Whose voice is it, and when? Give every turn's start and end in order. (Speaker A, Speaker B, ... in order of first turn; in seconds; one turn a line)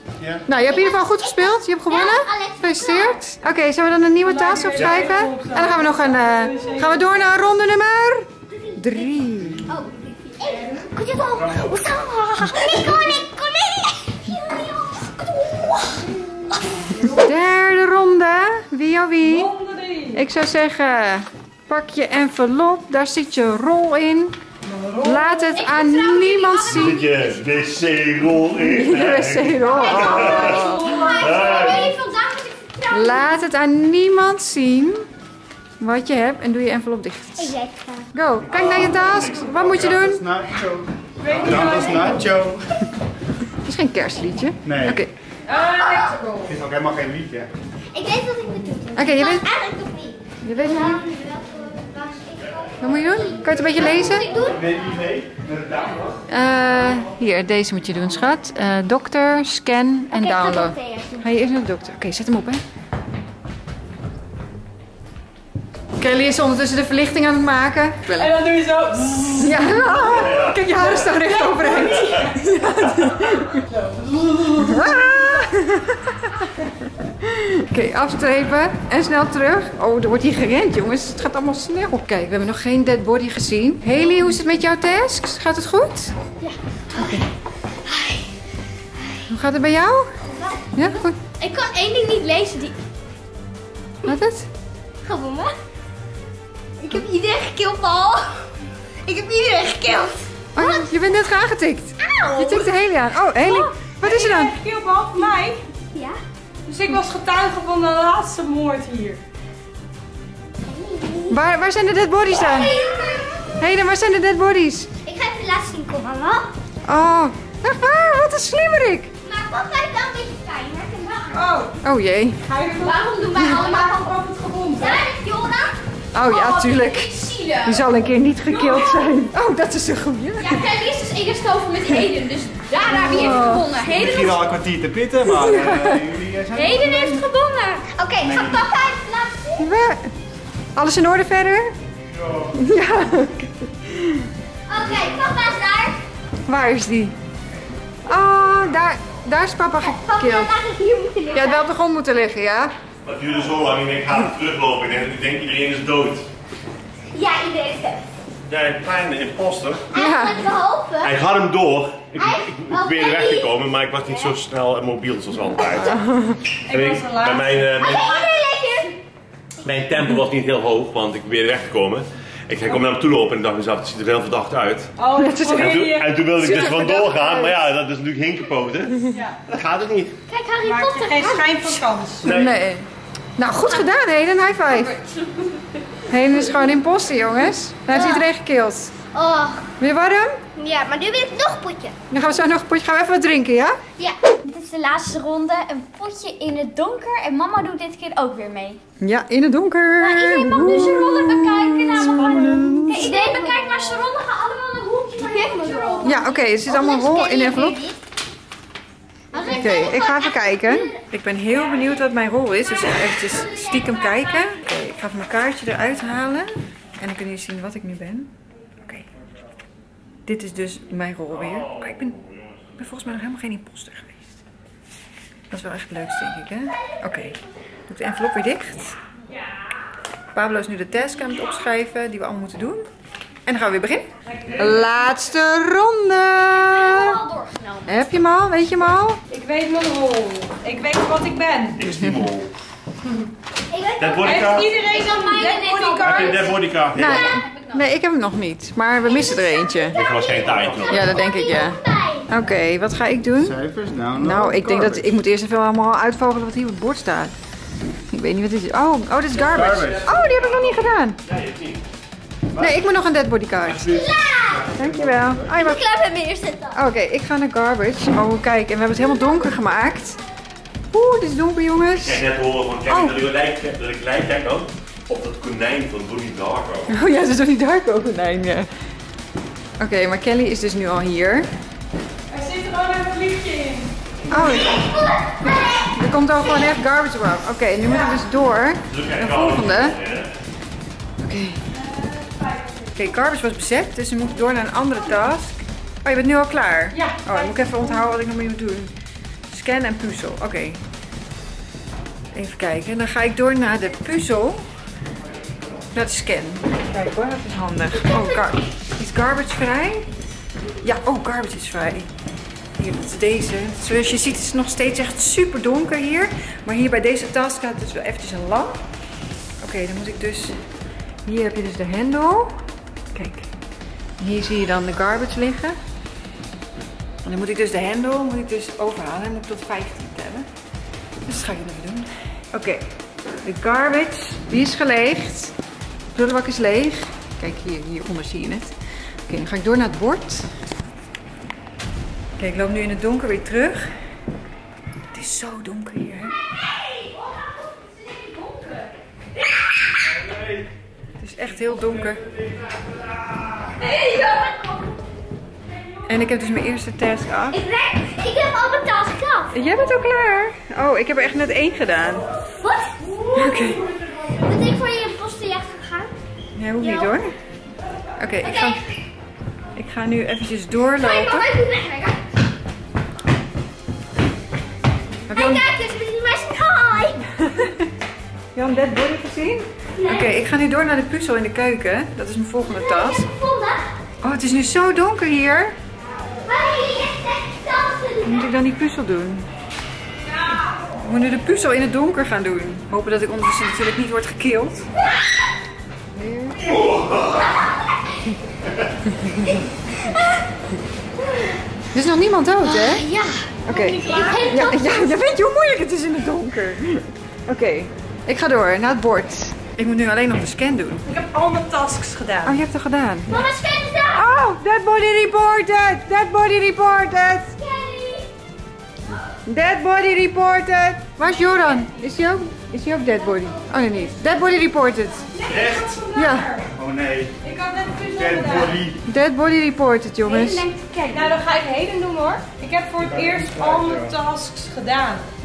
Speaker A: 0.5-9.7
Speaker B: 0.5-3.2
Speaker C: 4.2-7.1
Speaker B: 8.5-16.9
Speaker C: 10.4-10.9
Speaker D: 11.3-11.8
Speaker A: 12.5-13.0
Speaker C: 16.9-17.4
Speaker A: 17.2-19.5
Speaker C: 19.2-20.2
Speaker A: 20.1-24.4
Speaker C: 24.6-25.6
Speaker A: 25.0-27.0
Speaker E: 25.5-27.3
Speaker F: 26.7-30.6
Speaker A: 28.6-31.3
Speaker E: 29.6-33.4
Speaker B: 29.9-31.9
Speaker F: 31.2-31.9
Speaker A: 32.9-35.0
Speaker A: 35.8-37.5
Speaker B: 37.4-38.1
Speaker A: 38.1-40.2
Speaker D: 38.5-42.9
Speaker F: 38.5-39.9
Speaker C: 41.2-42.3
Speaker A: 43.6-45.1
Speaker D: 44.6-45.0
Speaker C: 45.5-46.5
Speaker B: 45.5-46.2
Speaker D: 46.5-47.5
Speaker B: 47.9-54.9
Speaker A: 49.0-49.5
Speaker A: 50.4-51.0
Speaker A: 52.8-54.4
Speaker D: 53.9-56.2
Speaker A: 56.3-62.6
Speaker B: 60.1-61.3
Speaker A: 66.0-68.4
Speaker C: 68.1-75.5
Speaker A: 69.4-73.6
Speaker F: 70.1-70.5
Speaker A: 74.6-76.4
Speaker A: 77.2-86.1
Speaker B: 86.4-87.2
Speaker A: 86.9-87.2
Speaker B: 87.8-88.3
Speaker B: 88.9-89.2
Speaker A: 89.3-90.2
Speaker B: 90.2-90.7
Speaker A: 90.7-91.2
Speaker E: 91.4-92.8
Speaker A: 94.0-94.5
Speaker B: 95.0-95.5
Speaker B: 96.8-98.4
Speaker B: 99.0-100.9
Speaker A: 100.5-104.6
Speaker B: 102.0-102.7
Speaker C: 103.5-105.6
Speaker B: 105.9-106.2
Speaker C: 106.7-109.2
Speaker B: 110.6-111.4
Speaker A: 111.3-112.7
Speaker B: 112.3-113.5
Speaker A: 113.6-114.9
Speaker B: 115.0-116.5
Speaker A: 116.8-119.1
Speaker B: 119.2-121.5
Speaker C: 121.3-121.8
Speaker A: 121.8-122.5
Speaker C: 122.4-125.0
Speaker E: 122.8-124.1
Speaker B: 124.7-125.8
Speaker A: 126.1-127.1
Speaker E: 126.2-127.9
Speaker A: 127.6-130.7
Speaker E: 128.5-129.1
Speaker E: 130.4-134.4
Speaker A: 132.8-133.7
Speaker D: 133.2-137.1
Speaker A: 135.2-136.1
Speaker E: 136.5-137.9
Speaker B: 137.9-139.7
Speaker D: 138.2-138.7
Speaker A: 139.6-140.1
Speaker A: 140.8-141.8
Speaker D: 142.1-142.6
Speaker A: 142.5-144.3
Speaker B: 144.7-146.0
Speaker A: 146.5-147.2
Speaker A: 148.1-150.5
Speaker B: 149.8-151.7
Speaker A: 151.3-152.7
Speaker F: 153.0-156.3
Speaker B: 157.1-158.1
Speaker F: 158.5-159.8
Speaker B: 159.9-161.1
Speaker A: 159.9-160.5
Speaker F: 161.0-166.0
Speaker B: 162.2-163.5
Speaker B: 164.0-164.3
Speaker A: 165.7-166.4
Speaker C: 166.7-168.3
Speaker F: 166.7-168.2
Speaker B: 167.8-169.0
Speaker F: 169.6-174.9
Speaker C: 175.0-176.2
Speaker A: 175.1-177.6
Speaker F: 175.4-180.2
Speaker C: 179.1-179.4
Speaker B: 180.3-181.8
Speaker C: 180.6-182.3
Speaker A: 182.2-184.9
Speaker F: 182.2-182.5
Speaker E: 184.7-185.6
Speaker A: 186.1-188.9
Speaker B: 187.9-188.2
Speaker B: 189.1-189.7
Speaker A: 189.8-190.4
Speaker B: 190.6-191.9
Speaker A: 192.1-193.8
Speaker E: 194.4-198.8
Speaker A: 199.0-203.1
Speaker E: 200.0-206.2
Speaker C: 201.9-202.8
Speaker B: 202.9-204.1
Speaker B: 205.2-208.0
Speaker A: 206.0-207.8
Speaker B: 209.3-211.0
Speaker A: 209.3-218.3
Speaker E: 212.7-214.6
Speaker A: 220.2-222.2
Speaker F: 221.3-222.8
Speaker A: 222.8-224.3
Speaker A: 225.5-229.0
Speaker B: 226.8-227.4
Speaker A: 230.3-232.9
Speaker A: 233.4-237.2
Speaker C: 234.2-235.2
Speaker F: 234.5-234.8
Speaker E: 236.4-238.2
Speaker A: 237.9-239.2
Speaker C: 239.3-241.8
Speaker F: 241.8-242.5
Speaker A: 241.8-242.3
Speaker B: 243.7-244.7
Speaker F: 244.0-244.7
Speaker C: 244.2-246.6
Speaker E: 244.8-247.9
Speaker F: 246.0-247.2
Speaker D: 246.1-246.9
Speaker A: 246.9-250.0
Speaker B: 249.0-252.4
Speaker F: 249.9-251.1
Speaker E: 250.0-250.6
Speaker D: 250.4-251.0
Speaker A: 250.9-253.6
Speaker D: 253.4-255.1
Speaker A: 254.1-257.3
Speaker A: 258.1-261.2
Speaker F: 259.3-261.8
Speaker D: 259.4-260.1
Speaker A: 262.6-264.1
Speaker D: 263.7-265.6
Speaker B: 263.8-264.7
Speaker A: 264.7-265.9
Speaker B: 265.5-266.8
Speaker A: 266.7-270.2
Speaker A: 270.9-272.2
Speaker F: 272.0-277.0
Speaker A: 272.9-273.1
Speaker A: 276.9-278.7
Speaker A: 279.8-281.5
Speaker C: 282.3-283.9
Speaker A: 284.3-284.9
Speaker B: 284.3-286.7
Speaker A: 285.4-290.0
Speaker C: 287.8-288.2
Speaker F: 288.9-290.3
Speaker A: 291.2-291.6
Speaker C: 291.7-293.0
Speaker A: 292.9-298.9
Speaker C: 296.9-298.1
Speaker A: 299.5-300.8
Speaker A: 302.3-304.6
Speaker A: 305.9-310.1
Speaker A: 310.8-312.1
Speaker A: 312.8-318.9
Speaker A: 319.6-320.6
Speaker A: 321.2-323.5
Speaker A: 324.2-325.8
Speaker A: 327.2-330.5
Speaker A: 331.2-332.9
Speaker A: 333.4-335.5
Speaker A: 336.1-338.7
Speaker A: 339.3-340.5
Speaker A: 342.4-343.9
Speaker A: 345.1-346.4
Speaker E: 347.0-348.9
Speaker D: 350.2-350.6
Speaker A: 351.2-352.2
Speaker D: 351.8-353.7
Speaker B: 353.8-354.8
Speaker A: 356.1-357.6
Speaker B: 357.5-359.7
Speaker A: 359.5-362.3
Speaker B: 362.4-363.6
Speaker C: 363.3-364.4
Speaker A: 363.3-363.8
Speaker B: 364.4-366.1
Speaker A: 366.6-367.3
Speaker B: 366.8-367.2
Speaker A: 368.2-368.8
Speaker B: 368.4-369.0
Speaker A: 369.7-371.5
Speaker B: 370.9-372.2
Speaker A: 375.3-375.6
Speaker B: 375.3-377.3
Speaker A: 377.4-377.9
Speaker A: 378.5-383.3
Speaker B: 380.0-380.3
Speaker B: 382.6-383.9
Speaker A: 384.2-385.8
Speaker B: 386.4-388.5
Speaker A: 388.2-389.5
Speaker A: 391.0-394.9
Speaker A: 396.1-396.6
Speaker F: 396.6-397.5
Speaker A: 399.2-399.5
Speaker A: 401.9-403.1
Speaker B: 402.6-405.2
Speaker A: 403.6-411.1
Speaker C: 404.1-404.5
Speaker C: 411.0-412.6
Speaker A: 412.4-413.4
Speaker B: 413.3-414.3
Speaker A: 414.1-417.5
Speaker B: 417.6-418.3
Speaker A: 419.5-425.3
Speaker B: 423.1-424.6
Speaker C: 425.3-426.7
Speaker D: 425.4-426.0
Speaker A: 426.1-426.5
Speaker D: 426.7-427.3
Speaker C: 427.4-428.8
Speaker D: 428.1-429.0
Speaker A: 429.0-430.6
Speaker E: 430.2-431.3
Speaker C: 431.1-435.2
Speaker D: 433.0-434.1